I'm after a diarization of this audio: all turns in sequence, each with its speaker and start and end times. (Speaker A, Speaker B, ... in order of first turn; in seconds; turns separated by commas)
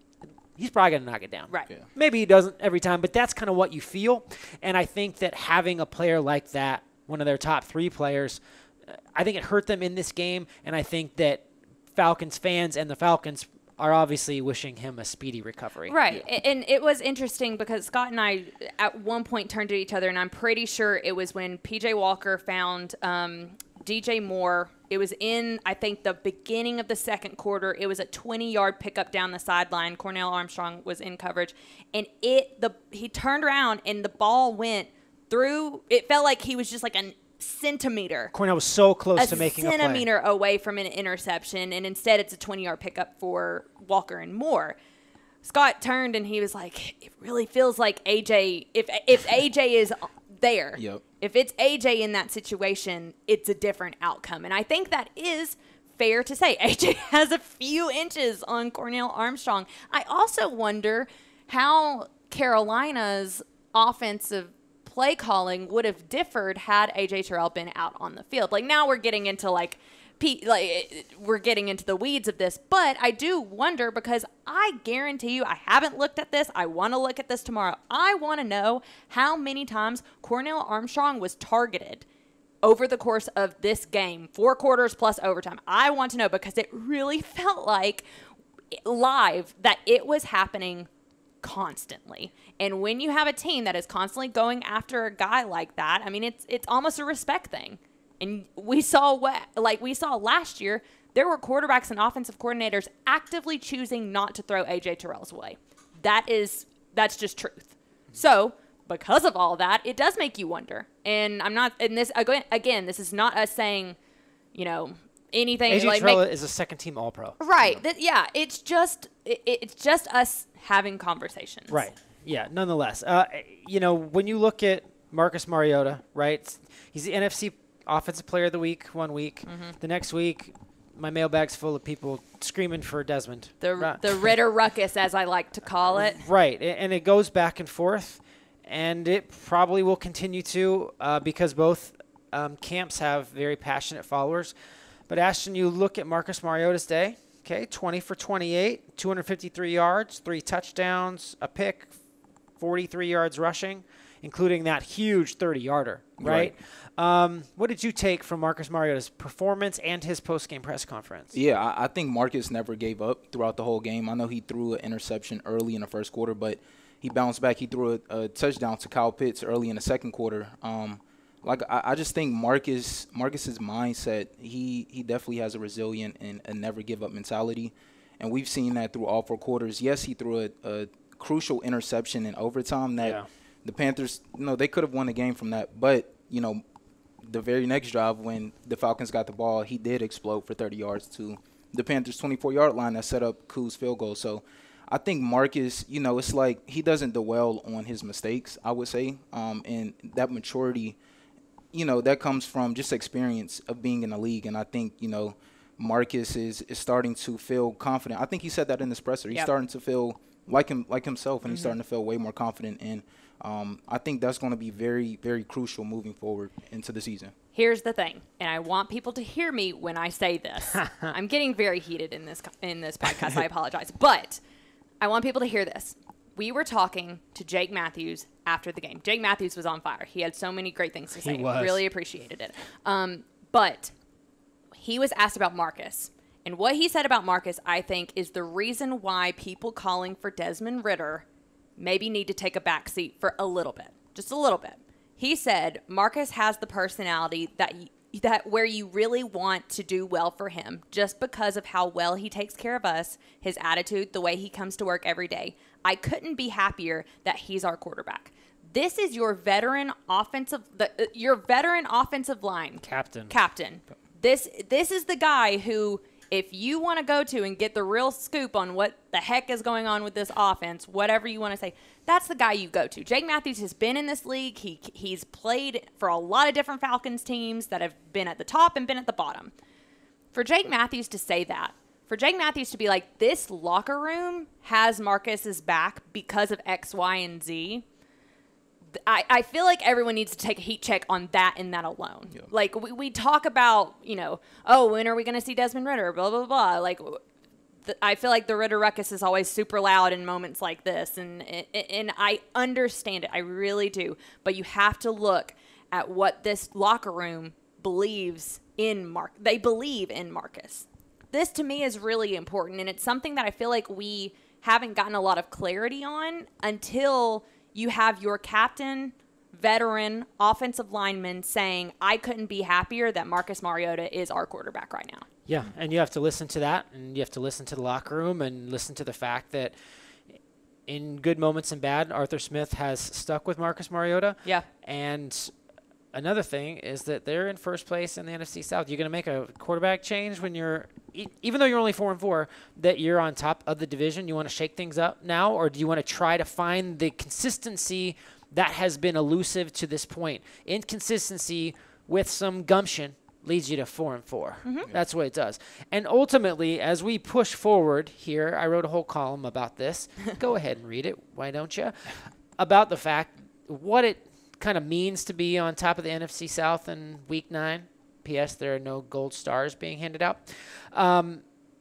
Speaker A: 0.6-15.9, Speaker B: 15.9-38.3, Speaker A: 38.3-40.1, Speaker B: 39.2-44.8, Speaker B: 45.4-82.0, Speaker C: 50.8-51.0, Speaker B: 82.6-88.0, Speaker B: 88.8-90.9, Speaker B: 91.4-114.0, Speaker B: 114.5-116.2, Speaker A: 115.7-117.3, Speaker B: 117.4-121.8, Speaker A: 121.7-134.3, Speaker B: 129.5-129.8, Speaker B: 133.6-136.2, Speaker A: 135.9-144.5, Speaker A: 145.1-151.9, Speaker A: 152.6-161.3, Speaker C: 156.2-156.5, Speaker C: 161.3-186.6, Speaker A: 183.0-183.3, Speaker C: 187.2-201.0, Speaker C: 201.7-217.3, Speaker B: 211.5-211.8, Speaker B: 217.6-224.4, Speaker B: 225.0-233.9, Speaker A: 231.2-231.8, Speaker B: 234.8-241.2, Speaker B: 241.8-279.5, Speaker A: 262.8-263.3, Speaker B: 280.3-287.8, Speaker B: 288.9-297.2, Speaker B: 297.9-325.3, Speaker A: 325.5-329.7, Speaker A: 330.9-335.5, Speaker A: 336.1-371.4